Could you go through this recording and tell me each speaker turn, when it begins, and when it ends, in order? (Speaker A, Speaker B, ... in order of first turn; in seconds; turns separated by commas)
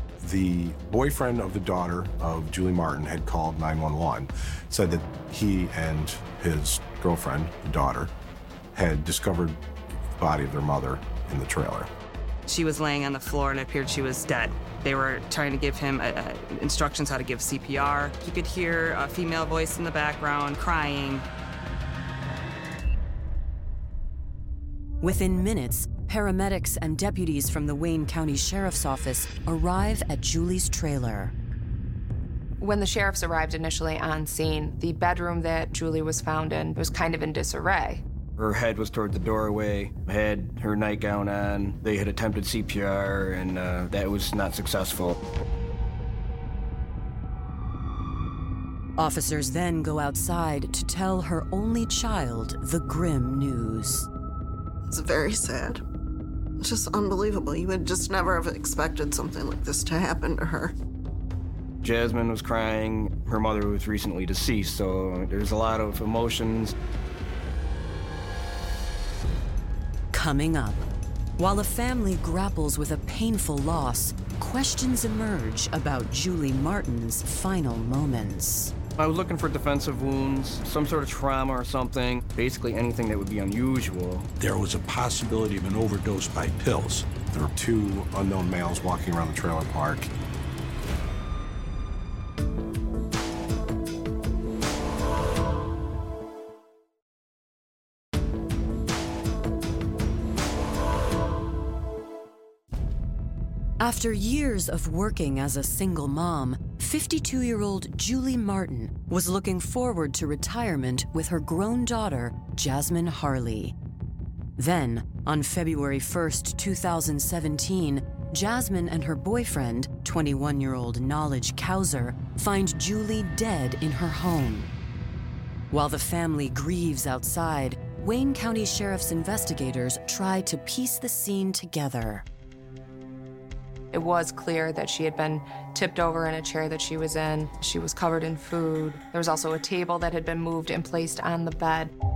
Speaker A: 0.2-8.1, Speaker A: 8.8-9.6, Speaker A: 10.2-11.9, Speaker B: 12.5-21.2, Speaker C: 25.0-31.3, Speaker D: 32.6-38.0, Speaker E: 38.4-45.2, Speaker C: 49.0-54.1, Speaker F: 54.9-55.8, Speaker F: 56.6-60.7, Speaker E: 61.8-66.8, Speaker C: 70.1-70.9, Speaker C: 71.4-78.7, Speaker E: 79.0-84.3, Speaker G: 84.4-87.1, Speaker A: 87.3-90.1, Speaker C: 103.8-113.7, Speaker C: 114.6-124.7, Speaker C: 125.7-132.2, Speaker D: 133.9-141.9